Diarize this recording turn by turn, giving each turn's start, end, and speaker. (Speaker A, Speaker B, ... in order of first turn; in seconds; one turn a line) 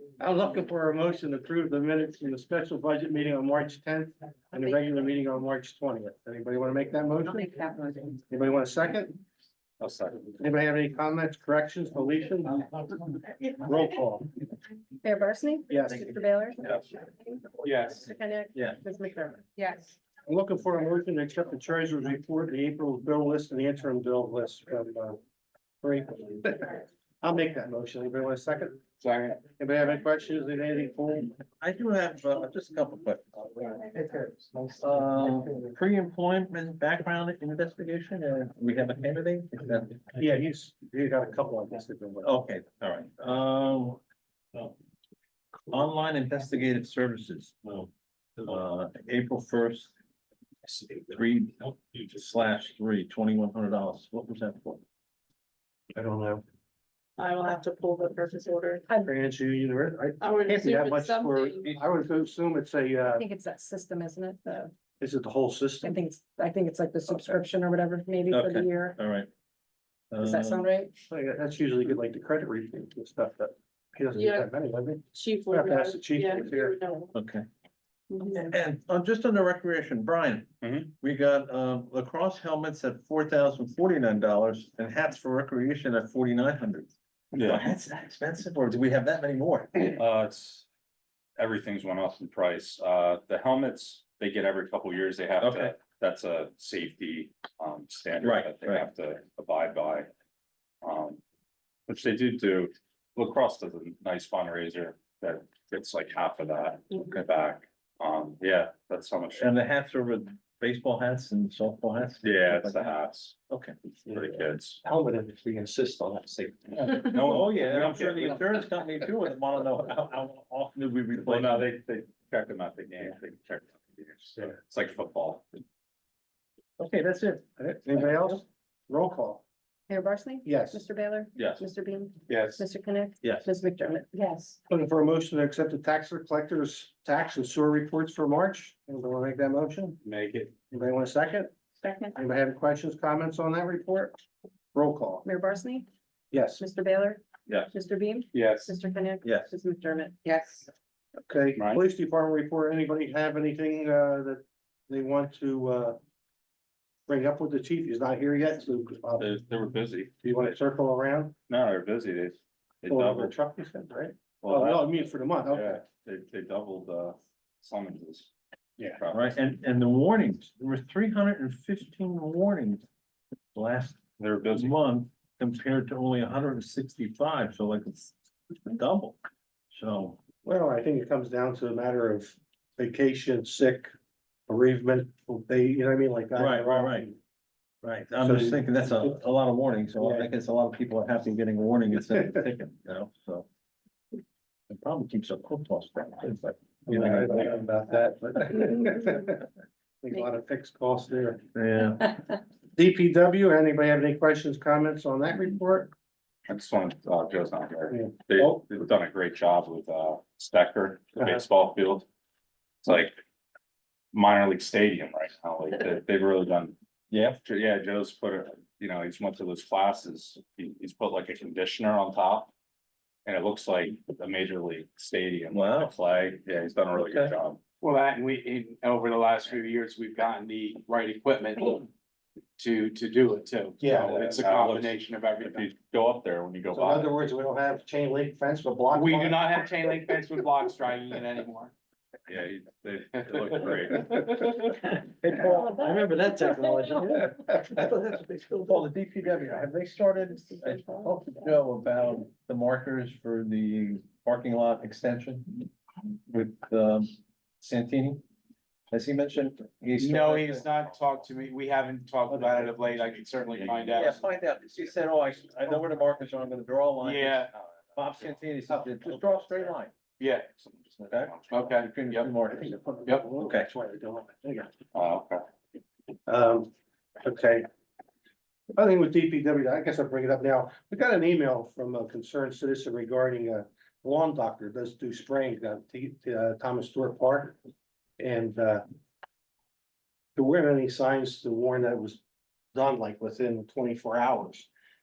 Speaker A: 0.2-7.5
Speaker B: 7.3-8.0
Speaker A: 8.3-9.2
Speaker C: 9.8-10.2
Speaker A: 10.4-14.3
Speaker B: 15.0-19.5
Speaker A: 15.7-16.1
Speaker D: 17.6-18.0
Speaker E: 19.6-19.9
Speaker A: 20.2-25.2
Speaker A: 25.8-28.8
Speaker D: 29.0-29.4
Speaker A: 29.4-31.4
Speaker F: 31.6-33.8
Speaker F: 34.8-40.0
Speaker A: 40.2-42.3
Speaker F: 42.2-44.0
Speaker F: 45.7-47.9
Speaker F: 48.4-49.9
Speaker F: 50.7-54.8
Speaker A: 55.9-56.4
Speaker E: 57.2-58.9
Speaker A: 59.0-63.2
Speaker E: 60.2-61.8
Speaker B: 63.1-64.7
Speaker A: 65.0-66.0
Speaker B: 65.8-69.0
Speaker F: 68.3-69.3
Speaker F: 70.1-70.7
Speaker B: 70.2-70.9
Speaker A: 71.1-76.8
Speaker E: 74.1-74.5
Speaker E: 75.1-77.1
Speaker F: 77.1-77.5
Speaker E: 78.1-78.5
Speaker F: 78.4-86.9
Speaker C: 80.6-80.9
Speaker C: 87.3-87.7
Speaker F: 87.4-90.0
Speaker C: 89.9-90.6
Speaker C: 91.4-100.1
Speaker F: 95.4-95.7
Speaker F: 98.2-98.9
Speaker C: 100.8-101.2
Speaker C: 101.9-109.5
Speaker F: 109.4-112.9
Speaker C: 112.2-113.4
Speaker F: 113.5-113.8
Speaker C: 114.0-114.8
Speaker A: 114.0-117.0
Speaker C: 116.7-118.4
Speaker F: 117.2-121.7
Speaker C: 121.2-125.5
Speaker F: 126.8-128.2
Speaker A: 127.8-129.4
Speaker B: 129.9-134.5
Speaker A: 130.4-130.8
Speaker C: 131.3-131.6
Speaker D: 132.3-132.6
Speaker A: 134.7-140.0
Speaker D: 140.0-140.5
Speaker A: 140.7-141.5
Speaker E: 141.8-142.1
Speaker A: 142.1-144.2
Speaker A: 144.7-145.2
Speaker B: 145.2-145.9
Speaker A: 146.3-146.6
Speaker B: 146.6-150.4
Speaker D: 148.4-148.7
Speaker F: 149.2-149.5
Speaker A: 151.2-156.0
Speaker C: 151.6-151.8
Speaker A: 157.1-159.3
Speaker C: 159.2-160.2
Speaker A: 160.2-161.3
Speaker C: 161.5-163.3
Speaker A: 162.9-165.8
Speaker C: 164.4-169.4
Speaker F: 169.1-172.8
Speaker F: 173.5-179.2
Speaker C: 174.2-174.8
Speaker F: 179.7-180.2
Speaker A: 180.4-183.9
Speaker A: 184.5-187.2
Speaker F: 186.3-187.1
Speaker F: 187.8-193.5
Speaker A: 188.2-189.2
Speaker A: 190.0-190.3
Speaker F: 194.7-197.5
Speaker A: 196.9-199.4
Speaker A: 200.0-201.4
Speaker F: 201.5-202.1
Speaker A: 202.7-205.9
Speaker C: 206.5-212.1
Speaker A: 207.9-208.6
Speaker C: 212.8-213.2
Speaker C: 214.1-216.8
Speaker F: 217.1-217.4
Speaker C: 217.4-222.5
Speaker C: 223.2-227.6
Speaker F: 225.5-225.9
Speaker F: 226.9-227.4
Speaker D: 227.8-231.9
Speaker D: 232.6-235.7
Speaker A: 233.8-234.2
Speaker C: 233.8-237.1
Speaker A: 236.7-239.8
Speaker D: 238.9-241.7
Speaker C: 242.3-244.5
Speaker F: 244.6-255.7
Speaker B: 250.4-251.1
Speaker F: 256.3-258.2
Speaker F: 258.9-260.7
Speaker D: 259.9-264.3
Speaker C: 260.8-261.2
Speaker A: 262.3-263.5
Speaker C: 263.6-264.1
Speaker F: 263.9-269.9
Speaker D: 267.0-267.5
Speaker A: 268.7-269.7
Speaker D: 270.2-270.5
Speaker C: 270.6-271.6
Speaker F: 271.0-272.8
Speaker D: 271.5-272.3
Speaker A: 272.5-274.7
Speaker F: 273.4-273.7
Speaker C: 274.9-275.4
Speaker A: 276.3-276.7
Speaker A: 277.2-277.6
Speaker A: 278.7-287.6
Speaker A: 288.2-288.8
Speaker A: 290.4-292.2
Speaker A: 292.7-294.7